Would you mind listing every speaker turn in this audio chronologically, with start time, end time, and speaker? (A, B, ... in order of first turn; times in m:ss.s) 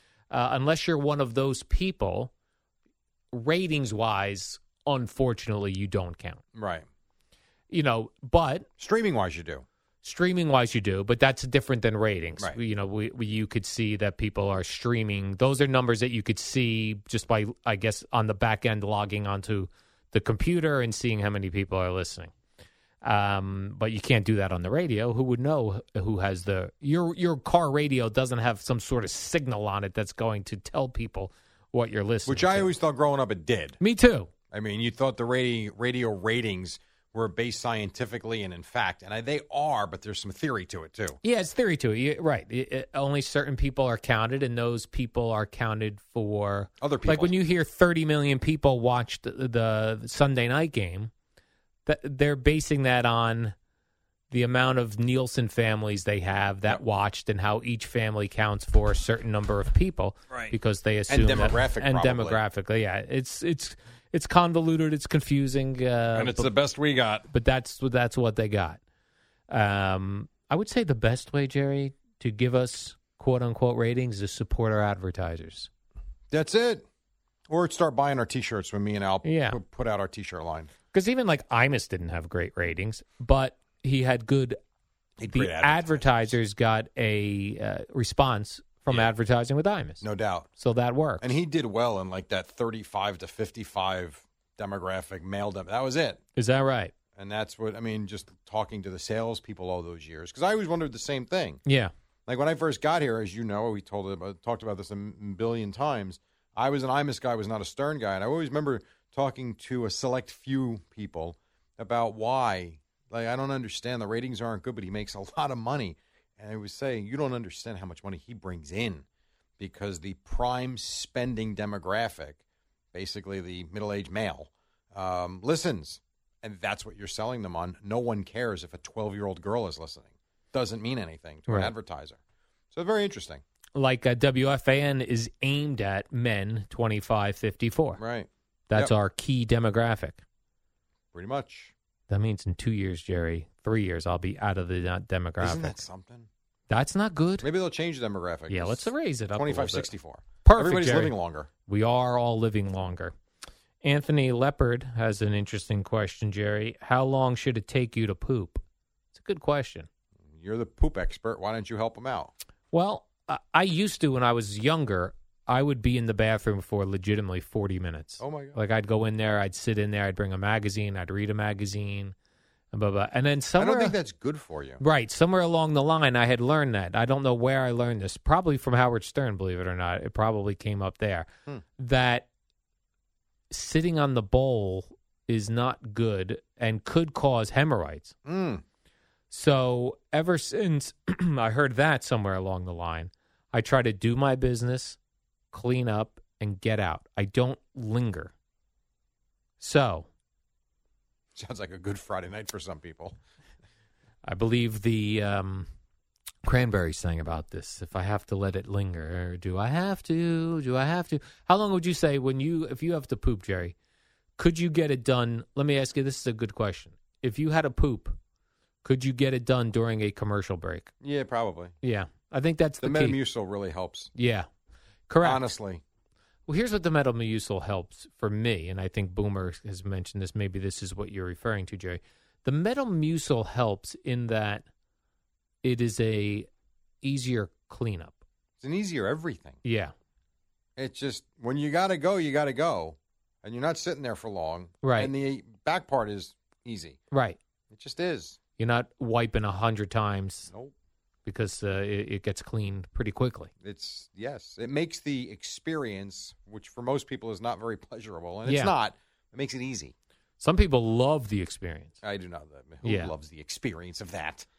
0:00.3-0:02.3 A
0:03.3-0:06.4 A
0:06.6-0:06.8 B
0:07.7-0:08.7 A
0:08.8-0:09.6 B
0:10.0-0:22.3 A
0:23.0-0:32.7 A
0:32.3-0:33.8 B
0:33.8-0:34.3 A
0:34.5-0:41.2 B
0:41.2-0:51.1 A
0:46.8-0:47.4 B
0:51.9-0:53.6 A
0:54.3-1:06.5 A
1:01.1-1:02.4 B
1:06.1-1:07.3 B
1:07.3-1:08.8 A
1:09.5-1:15.7 A
1:16.3-1:16.8 B
1:17.5-1:20.7 B
1:19.2-1:19.6 A
1:20.9-1:24.6 A
1:25.2-1:26.4 B
1:25.3-1:30.0 A
1:30.0-1:30.5 B
1:30.6-1:31.4 A
1:31.2-1:36.2 B
1:36.4-1:36.9 A
1:37.2-1:41.6 B
1:41.7-1:41.9 A
1:42.3-1:59.0 B
1:59.6-2:02.4 B
2:02.9-2:12.2 B
2:11.5-2:11.7 A
2:12.7-2:13.4 B
2:13.8-2:18.0 A
2:18.0-2:18.9 B
2:18.7-2:20.2 A
2:21.1-2:21.7 B
2:22.1-2:25.8 A
2:25.4-2:26.3 B
2:26.7-2:27.5 A
2:27.4-2:31.5 B
2:28.5-2:29.9 A
2:30.4-2:31.1 A
2:31.7-2:33.1 A
2:33.8-2:38.6 A
2:39.1-2:39.9 A
2:40.4-2:42.3 B
2:42.7-2:52.2 A
2:48.2-2:48.6 B
2:52.7-2:54.0 A
2:53.6-2:54.8 B
2:54.8-3:02.3 A
3:03.5-3:08.2 A
3:08.3-3:08.6 B
3:09.3-3:15.0 A
3:15.5-3:18.3 A
3:19.6-3:20.1 A
3:21.4-3:23.2 B
3:24.2-3:25.7 A
3:26.4-3:33.8 A
3:34.4-3:38.2 A
3:38.8-3:40.9 A
3:41.0-3:41.7 B
3:41.8-3:43.2 A
3:42.8-3:44.1 B
3:44.2-3:44.5 A
3:45.1-3:45.4 A
3:45.2-3:45.8 B
3:46.5-3:54.6 A
3:55.6-3:56.5 A
3:57.0-3:58.2 A
3:58.6-3:59.6 B
3:59.6-3:59.9 A
4:00.8-4:07.0 B
4:04.8-4:05.1 A
4:07.1-4:07.4 A
4:07.7-4:08.4 B
4:08.6-4:10.5 A
4:11.3-4:13.5 A
4:13.6-4:19.9 B
4:18.4-4:18.7 A
4:20.4-4:22.0 A
4:22.0-4:24.5 B
4:22.8-4:23.1 A